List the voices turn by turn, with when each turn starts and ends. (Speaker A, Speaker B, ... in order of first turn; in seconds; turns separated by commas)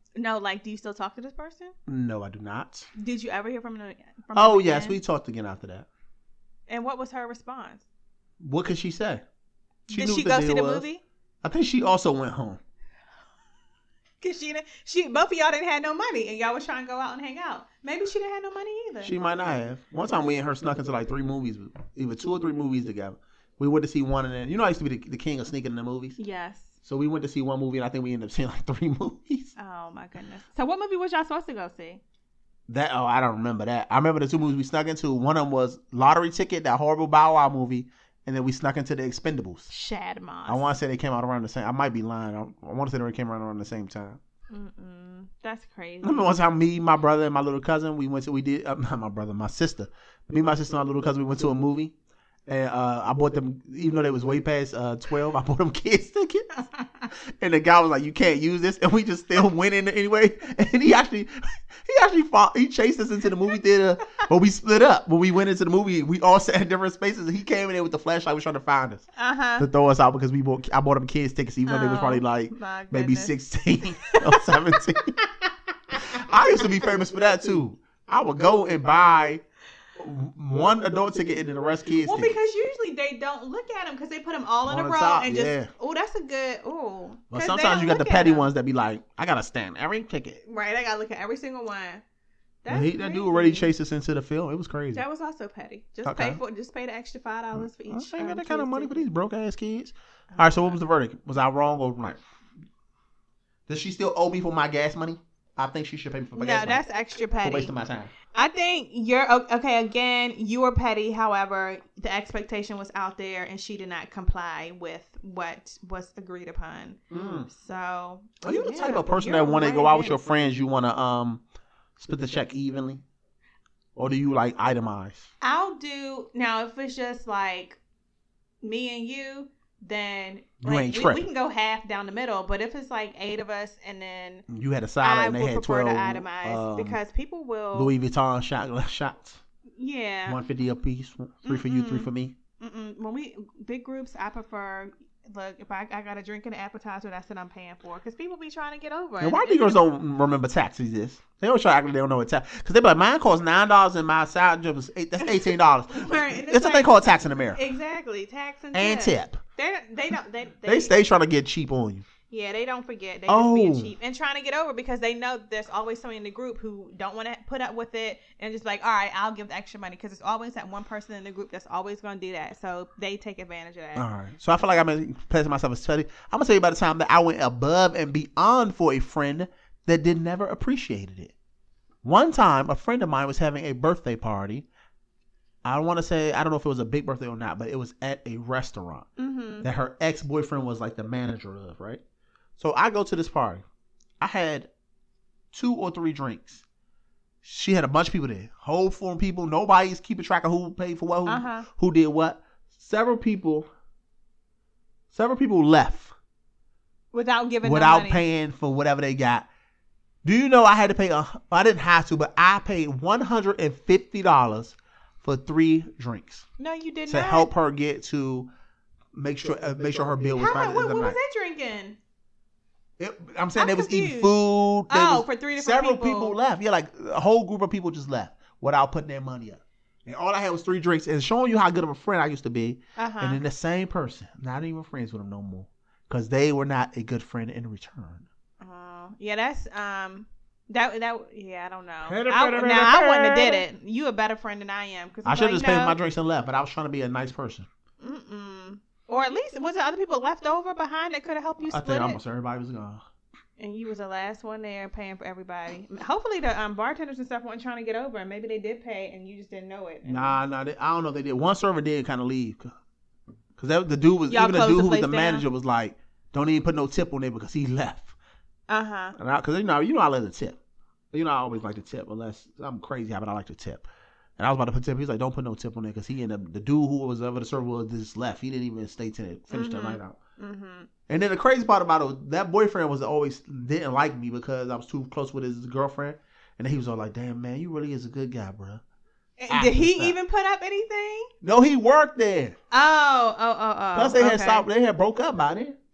Speaker A: 0.2-1.8, Speaker B: 1.9-2.9, Speaker A: 3.0-5.0, Speaker B: 4.3-5.9, Speaker A: 6.7-7.8, Speaker B: 8.4-9.2, Speaker B: 9.9-10.9, Speaker A: 9.9-11.0, Speaker B: 11.4-12.6, Speaker A: 14.2-19.1, Speaker B: 19.0-26.2, Speaker A: 26.2-26.8, Speaker B: 26.8-29.5, Speaker A: 29.6-32.0, Speaker B: 32.7-39.7, Speaker A: 39.7-40.7, Speaker B: 40.5-44.2, Speaker A: 44.5-46.4, Speaker B: 46.0-51.9, Speaker B: 52.5-56.6, Speaker A: 56.8-57.0, Speaker B: 57.2-69.1, Speaker A: 69.2-69.7, Speaker B: 69.6-75.2, Speaker A: 71.7-74.9, Speaker B: 75.9-79.4, Speaker A: 76.1-76.8, Speaker B: 80.0-82.4, Speaker A: 82.0-88.5, Speaker B: 84.7-85.7, Speaker B: 87.3-90.4, Speaker A: 90.5-92.0, Speaker A: 92.6-93.7, Speaker B: 92.7-95.0, Speaker A: 94.9-99.0, Speaker B: 96.0-96.4, Speaker B: 97.6-102.2, Speaker A: 100.3-100.8, Speaker B: 103.7-106.8, Speaker A: 106.4-107.7, Speaker B: 107.4-108.1, Speaker A: 108.3-120.2, Speaker B: 117.1-117.5, Speaker B: 118.4-121.4, Speaker B: 122.0-123.0, Speaker B: 124.0-125.3, Speaker A: 125.4-127.8, Speaker A: 128.6-134.5, Speaker B: 130.6-131.3, Speaker B: 134.5-137.0, Speaker A: 135.0-137.9, Speaker B: 137.7-139.4, Speaker A: 139.8-140.4, Speaker B: 140.3-142.3, Speaker A: 141.5-149.8, Speaker B: 149.2-157.6, Speaker A: 155.2-157.0, Speaker A: 157.5-160.9, Speaker B: 158.7-159.4, Speaker B: 160.7-162.1, Speaker A: 162.3-174.1, Speaker B: 163.3-163.9, Speaker B: 174.0-181.3, Speaker B: 182.0-184.7, Speaker B: 185.7-189.1, Speaker A: 189.2-189.7, Speaker B: 189.6-192.0, Speaker B: 192.6-193.6, Speaker B: 194.2-194.7, Speaker B: 195.5-196.6, Speaker B: 197.4-203.7, Speaker A: 201.3-201.7, Speaker B: 205.1-206.1, Speaker A: 207.1-208.2, Speaker B: 207.6-209.5, Speaker B: 210.2-216.4, Speaker A: 216.6-217.5, Speaker B: 217.1-218.5, Speaker B: 219.1-221.2, Speaker A: 220.3-222.0, Speaker B: 223.0-238.3, Speaker A: 223.6-224.4, Speaker A: 224.9-226.4, Speaker A: 233.0-233.4, Speaker A: 238.6-246.0, Speaker B: 242.0-243.6, Speaker B: 245.2-247.7, Speaker A: 248.0-252.2, Speaker B: 251.7-253.0, Speaker A: 253.6-260.4, Speaker B: 260.1-262.7, Speaker B: 263.6-268.1, Speaker A: 264.3-265.4, Speaker A: 268.7-269.2, Speaker B: 269.2-270.6, Speaker B: 271.1-273.9, Speaker B: 274.4-280.2, Speaker A: 279.5-280.9, Speaker B: 281.1-288.8, Speaker A: 289.4-291.3, Speaker B: 289.5-290.2, Speaker B: 291.4-292.6, Speaker A: 292.7-294.7, Speaker B: 293.9-295.8